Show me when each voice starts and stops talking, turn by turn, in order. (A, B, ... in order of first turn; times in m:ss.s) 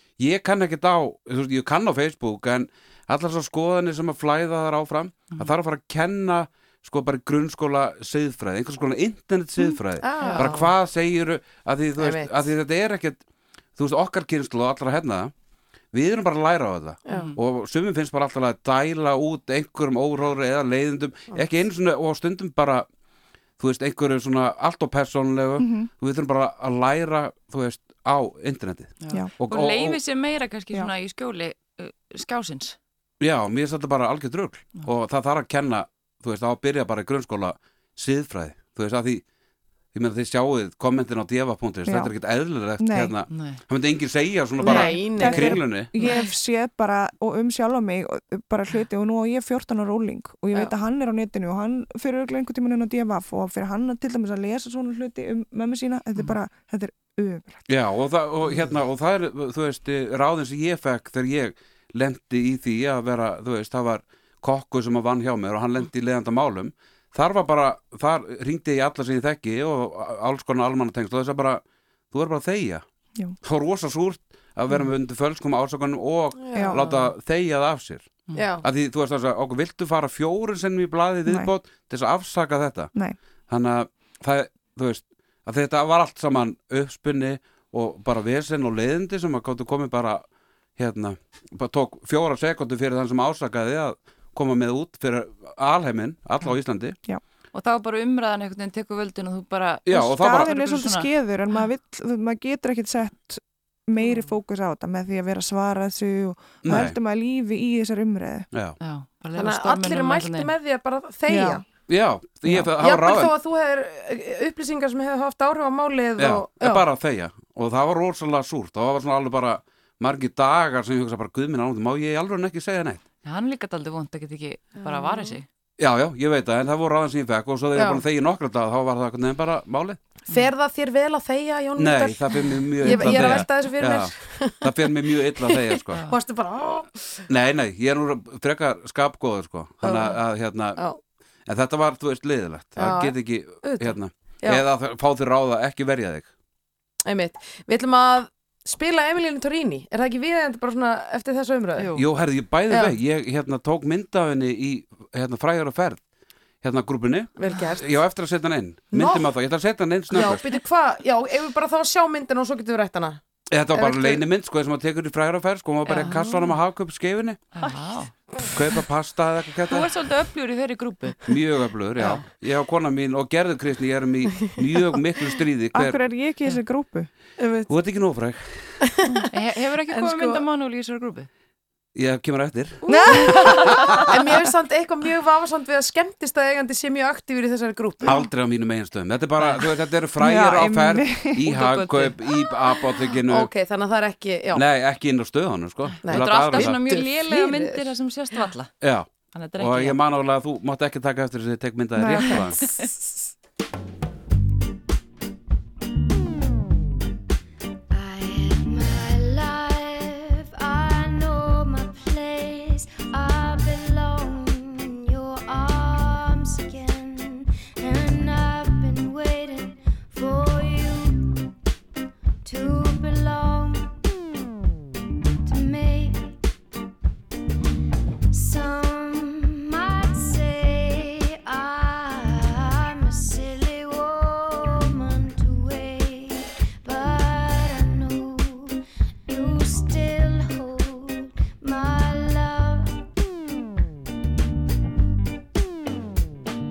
0:00.2-0:13.2 A
0:10.0-0:10.7 B
0:10.2-0:10.6 C
0:12.0-0:12.5 B
0:13.8-0:15.3 A
0:15.9-0:22.8 A
0:17.1-0:17.4 C
0:23.6-0:30.0 A
0:25.6-0:25.9 D
0:29.0-0:32.8 C
0:33.2-0:39.2 A
0:39.9-0:46.0 A
0:41.8-0:42.1 D
0:42.8-0:43.1 D
0:43.3-0:43.6 C
0:44.6-0:45.6 B
0:44.6-0:46.3 C
0:44.6-0:57.6 D
0:57.7-1:12.8 A
1:13.4-1:22.9 A
1:16.4-1:16.7 B
1:16.8-1:17.1 C
1:18.3-1:18.6 B
1:21.2-1:21.5 D
1:23.5-1:30.2 A
1:30.8-1:37.0 A
1:37.5-1:41.6 C
1:39.8-1:40.5 A
1:39.9-1:48.5 D
1:46.6-1:47.0 A
1:48.5-1:48.8 A
1:48.8-1:50.5 C
1:49.3-1:51.6 B
1:51.3-1:51.6 D
1:51.9-1:53.3 A
1:52.8-1:56.8 B
1:56.2-2:03.0 A
2:03.2-2:05.5 C
2:04.8-2:05.4 B
2:05.8-2:10.0 A
2:07.7-2:08.0 B
2:10.3-2:14.7 B
2:11.8-2:16.0 A
2:12.3-2:13.5 C
2:15.5-2:17.2 B
2:15.9-2:16.2 C
2:17.3-2:20.8 A
2:19.8-2:20.2 B
2:21.5-2:26.3 A
2:22.8-2:24.6 B
2:27.0-2:31.9 B
2:31.8-2:32.0 C
2:32.0-2:36.0 A
2:32.7-2:32.9 B
2:36.6-2:40.4 A
2:37.4-2:38.0 B
2:38.9-2:39.3 B
2:40.1-2:43.2 B
2:43.5-2:47.5 A
2:43.7-2:44.2 B
2:45.9-2:46.5 C
2:47.5-2:48.1 C
2:48.5-2:49.9 A
2:49.7-2:51.2 C
2:51.2-2:56.0 A
2:52.0-2:52.2 C
2:55.7-2:57.1 D
2:57.4-2:57.7 B
2:57.7-2:58.7 A
2:58.8-2:59.2 B
2:59.3-3:01.3 C
2:59.9-3:00.4 B
3:01.9-3:04.4 A
3:02.8-3:03.3 D
3:03.2-3:08.2 B
3:03.2-3:04.0 C
3:08.0-3:13.5 A
3:09.4-3:09.6 C
3:10.2-3:11.4 D
3:11.4-3:12.2 C
3:13.3-3:14.6 B
3:14.5-3:16.8 A
3:16.0-3:17.8 B
3:16.0-3:18.7 C
3:18.8-3:22.7 A
3:19.3-3:20.0 C
3:22.0-3:22.3 D
3:22.2-3:22.9 C
3:27.9-3:41.2 E
3:42.4-3:43.9 E
3:45.4-3:46.3 E
3:48.3-3:58.8 E
3:59.3-4:03.0 E